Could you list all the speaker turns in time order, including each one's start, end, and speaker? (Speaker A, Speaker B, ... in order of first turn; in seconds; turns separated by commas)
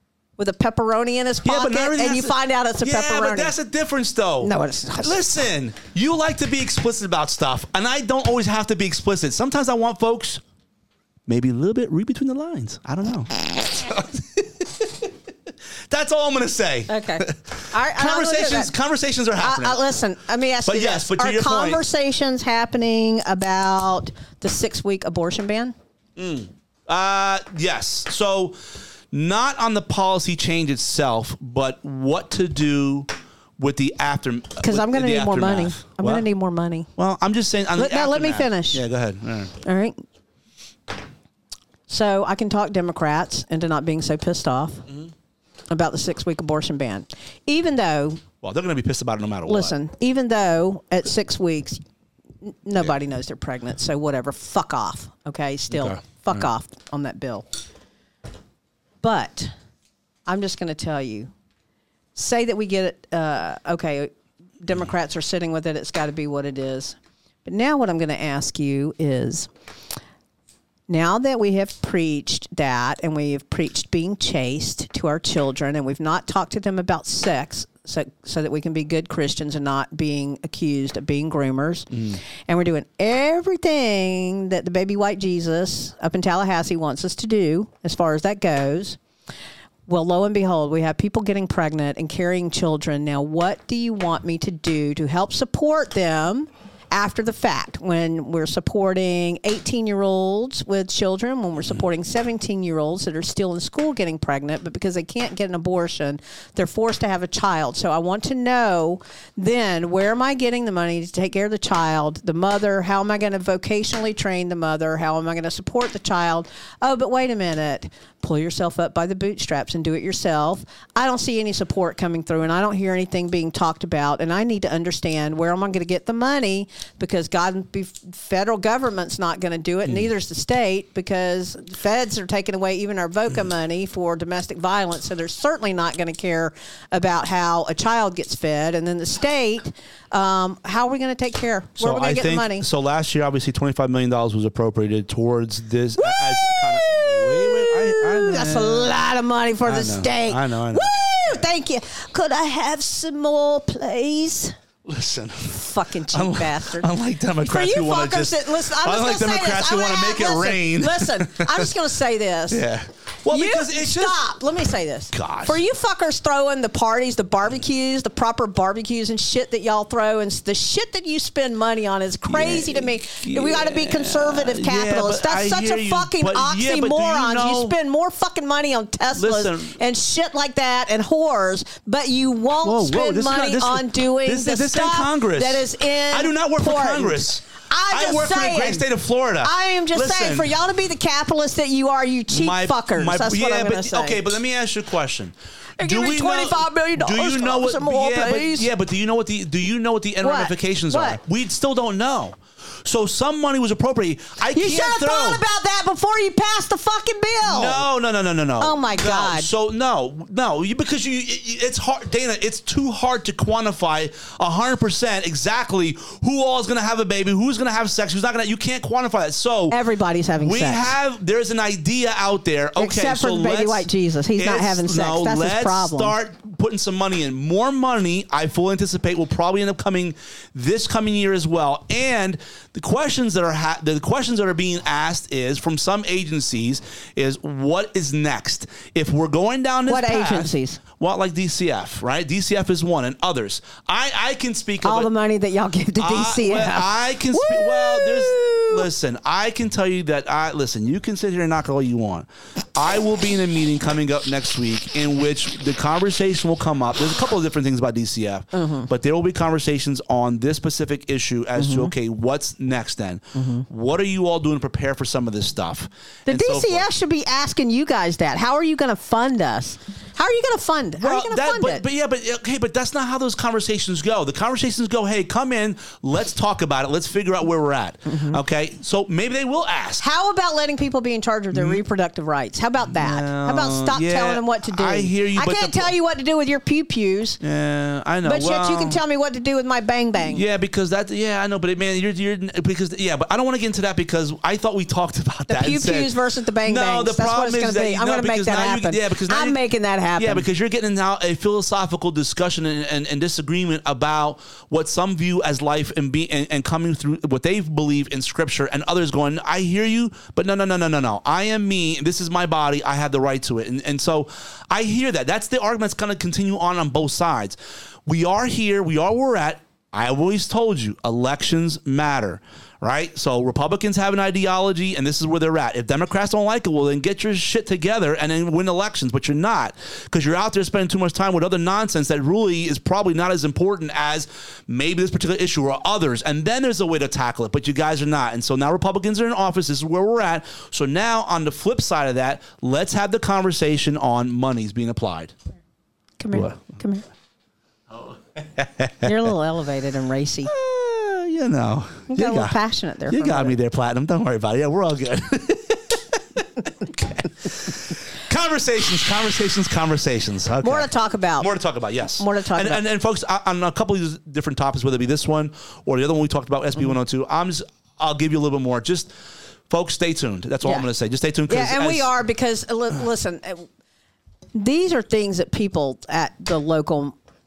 Speaker A: 0.4-3.5, Speaker B: 1.4-10.4, Speaker A: 4.4-5.2, Speaker B: 11.3-15.1, Speaker B: 15.9-19.8, Speaker A: 16.9-18.7, Speaker A: 19.4-25.7, Speaker B: 20.6-21.8, Speaker B: 26.1-36.2, Speaker A: 34.6-36.9, Speaker B: 37.0-39.5, Speaker A: 37.8-38.8, Speaker A: 39.6-40.0, Speaker A: 41.9-44.9, Speaker A: 45.7-48.2, Speaker B: 48.4-49.7, Speaker A: 49.5-51.8, Speaker A: 52.4-57.5, Speaker B: 55.7-56.4, Speaker A: 59.0-59.5, Speaker A: 60.2-61.3, Speaker A: 62.1-64.1, Speaker A: 64.6-69.5, Speaker A: 70.9-89.0, Speaker B: 81.9-82.2, Speaker A: 89.9-142.6, Speaker B: 141.8-148.9, Speaker A: 146.0-154.5, Speaker B: 149.6-151.4, Speaker B: 154.8-155.6, Speaker A: 155.5-156.9, Speaker B: 156.1-161.7, Speaker A: 157.4-162.6, Speaker B: 162.5-164.2, Speaker A: 163.3-188.8, Speaker B: 165.1-165.6, Speaker B: 172.3-177.7, Speaker B: 179.2-179.8, Speaker B: 182.6-190.5, Speaker A: 189.4-194.2, Speaker B: 192.3-205.4, Speaker A: 195.8-198.7, Speaker A: 200.2-201.2, Speaker A: 204.5-207.8, Speaker B: 207.4-219.8, Speaker A: 208.6-209.5, Speaker A: 219.7-220.9, Speaker B: 220.4-245.1, Speaker A: 222.8-226.1, Speaker A: 239.9-240.8, Speaker A: 244.8-248.9, Speaker B: 246.0-266.9, Speaker A: 258.5-258.9, Speaker A: 261.6-261.9, Speaker A: 263.3-263.6, Speaker A: 266.3-271.8, Speaker B: 271.0-280.0, Speaker A: 278.1-278.4, Speaker A: 280.0-287.4, Speaker B: 281.5-281.8, Speaker B: 282.9-285.9, Speaker B: 287.4-289.0, Speaker A: 288.2-290.4, Speaker B: 290.2-299.6, Speaker A: 295.5-300.4, Speaker B: 300.2-345.3, Speaker A: 346.2-347.0, Speaker B: 347.9-349.1, Speaker A: 349.0-350.5, Speaker B: 350.4-369.1, Speaker A: 352.1-353.6, Speaker A: 360.6-361.5, Speaker A: 362.2-362.8, Speaker B: 369.7-372.1, Speaker A: 371.5-373.7, Speaker A: 374.5-377.1